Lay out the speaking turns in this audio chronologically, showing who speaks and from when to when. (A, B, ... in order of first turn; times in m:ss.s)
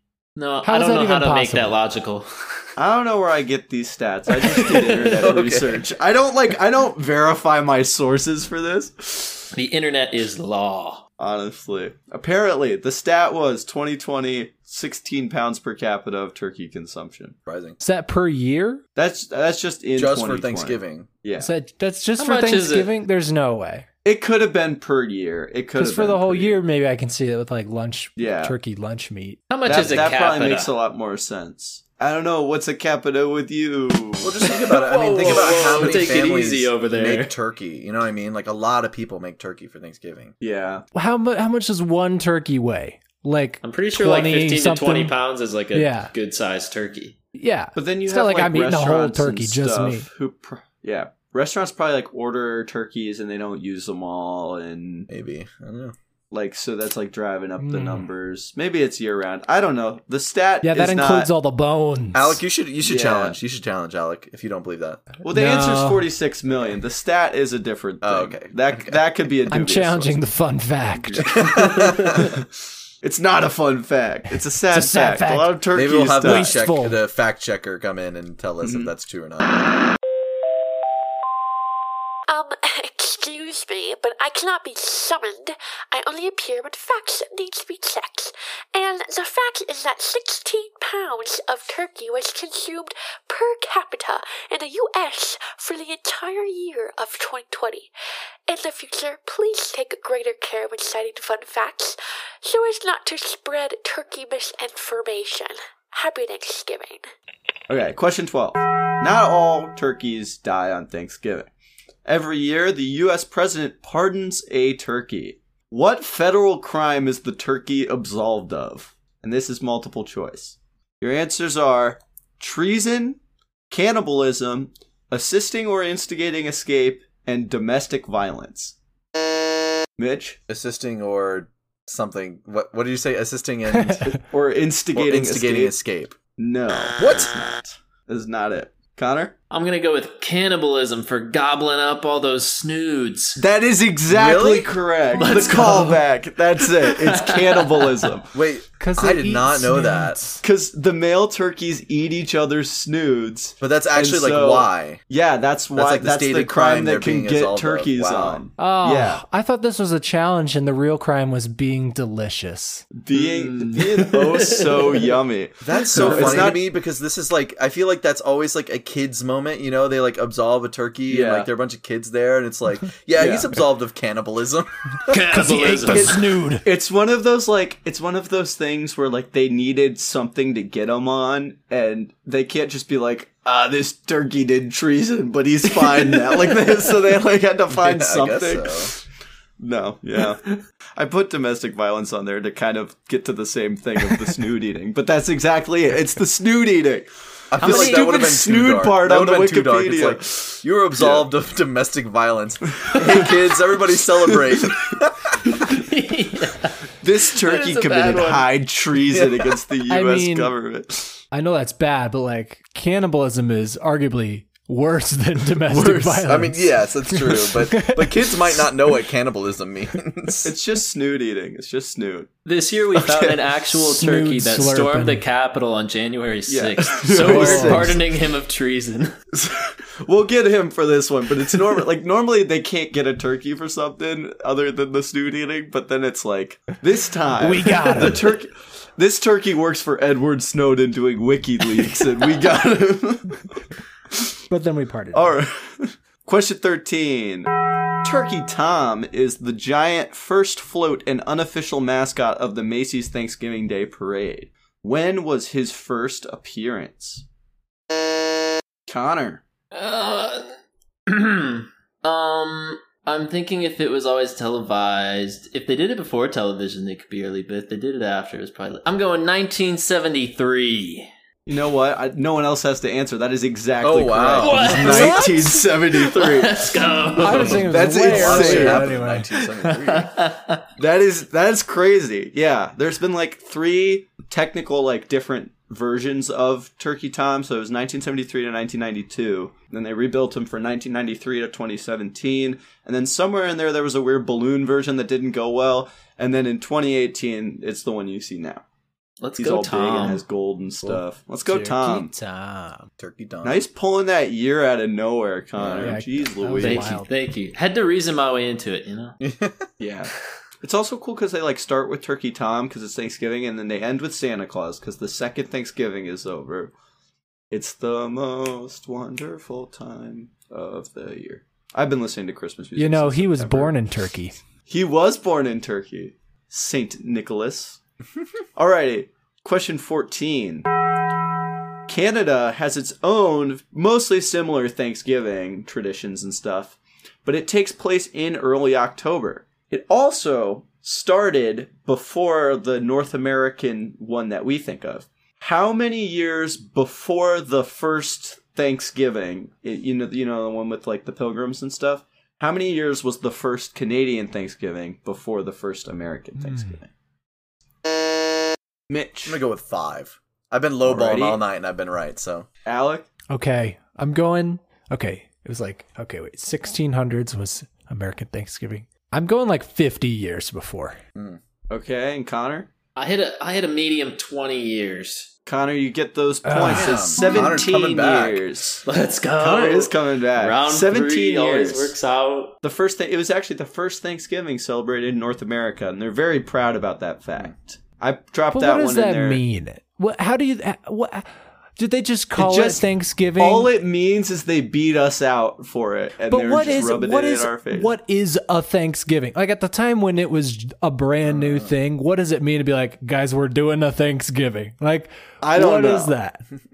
0:00.4-0:02.5 A
0:00.6-0:01.8 B
0:02.8-0:09.5 C
0:04.7-0:05.9 D
0:09.5-0:11.0 A
0:11.2-0:17.4 C
0:17.5-0:17.8 D
0:17.8-0:18.8 B
0:19.0-0:21.5 C
0:20.0-0:21.1 D
0:21.4-0:23.9 B
0:22.2-0:22.9 A
0:24.0-0:26.6 C
0:25.8-0:29.4 B
0:28.2-0:28.6 C
0:29.5-0:30.7 A
0:29.7-0:34.6 C
0:34.2-0:40.3 D
0:34.4-0:37.4 A
0:35.2-0:36.1 C
0:40.4-0:40.8 C
0:40.9-0:45.2 B
0:43.6-0:47.2 A
0:45.7-0:46.1 B
0:47.4-0:50.1 B
0:47.8-0:55.1 C
0:55.1-0:56.0 D
0:56.3-1:01.3 C
0:57.6-0:58.1 B
1:00.6-1:02.4 B
1:02.1-1:05.0 D
1:02.8-1:03.4 C
1:05.2-1:10.2 C
1:05.3-1:06.1 B
1:08.0-1:09.0 D
1:09.5-1:11.3 B
1:11.0-1:12.4 C
1:11.3-1:12.3 D
1:11.6-1:12.1 A
1:13.0-1:16.5 C
1:14.7-1:15.7 B
1:15.7-1:19.6 D
1:16.2-1:17.0 B
1:18.6-1:18.9 C
1:22.3-1:37.9 E
1:38.5-1:47.0 E
1:47.7-1:51.5 C
1:52.1-2:03.2 C
2:03.7-2:08.8 C
2:10.0-2:10.4 C
2:10.5-2:14.2 D
2:13.8-2:14.1 B
2:14.1-2:15.7 C
2:14.9-2:16.2 D
2:16.4-2:19.4 C
2:17.0-2:17.3 D
2:19.5-2:23.4 A
2:23.4-2:28.3 C
2:24.1-2:24.8 D
2:25.1-2:26.0 A
2:26.6-2:28.2 A
2:28.3-2:30.2 D
2:28.8-2:30.4 B
2:30.4-2:39.2 C
2:33.6-2:35.0 D
2:35.7-2:38.4 D
2:38.6-2:42.9 B
2:43.0-2:46.6 C
2:43.1-2:45.2 A
2:45.6-2:55.2 D
2:46.0-2:46.4 A
2:51.1-2:51.5 C
2:53.2-2:53.6 C
2:55.1-2:56.3 A
2:55.3-2:56.7 B
2:55.9-3:09.0 C
3:06.0-3:06.7 A
3:07.7-3:08.9 D
3:09.6-3:21.3 C
3:17.5-3:25.4 D
3:17.6-3:18.3 A
3:22.9-3:23.3 C
3:24.5-3:24.7 C
3:25.4-3:28.5 A
3:27.0-3:31.2 C
3:29.1-3:29.5 D
3:29.9-3:30.5 B
3:31.3-3:38.6 B
3:35.7-3:40.5 D
3:40.4-3:42.3 C
3:42.5-3:49.1 A
3:43.0-3:43.4 D
3:43.8-3:45.2 B
3:46.5-3:48.0 C
3:47.2-3:48.0 B
3:49.3-4:03.5 C
3:57.4-3:58.3 B
4:04.5-4:05.3 B
4:05.1-4:07.5 C
4:08.0-4:17.2 C
4:18.9-4:19.4 C
4:19.7-4:20.5 A
4:21.1-4:31.1 A
4:31.5-4:38.9 C
4:33.8-4:35.2 D
4:34.4-4:37.7 A
4:34.8-4:35.7 B
4:37.2-4:39.3 B
4:37.2-4:40.2 D
4:39.4-4:40.7 A
4:40.8-4:58.6 C
4:59.2-5:00.2 A
4:59.4-5:02.1 C
5:00.8-5:02.9 B
5:03.0-5:03.6 D
5:03.4-5:06.9 C
5:05.6-5:06.0 D
5:05.8-5:07.1 B
5:06.6-5:09.2 A
5:09.2-5:09.7 D
5:09.8-5:10.1 C
5:10.6-5:16.7 C
5:17.5-5:23.8 C
5:22.8-5:24.4 B
5:24.7-5:27.8 C
5:28.6-5:30.7 C
5:31.9-5:56.9 C
5:56.4-5:56.8 B
5:58.9-5:59.4 C
5:59.3-6:02.5 D
6:00.8-6:01.4 C
6:02.7-6:03.1 C
6:03.3-6:11.0 B
6:11.2-6:11.4 D
6:11.7-6:12.7 C
6:13.0-6:15.3 A
6:15.5-6:18.9 C
6:16.4-6:17.1 B
6:16.7-6:18.4 D
6:18.9-6:22.6 A
6:19.4-6:22.0 C
6:22.6-6:29.4 C
6:28.5-6:31.3 B
6:31.8-6:33.7 B
6:32.4-6:37.9 C
6:36.3-6:46.4 B
6:41.3-6:41.7 D
6:45.4-6:46.1 C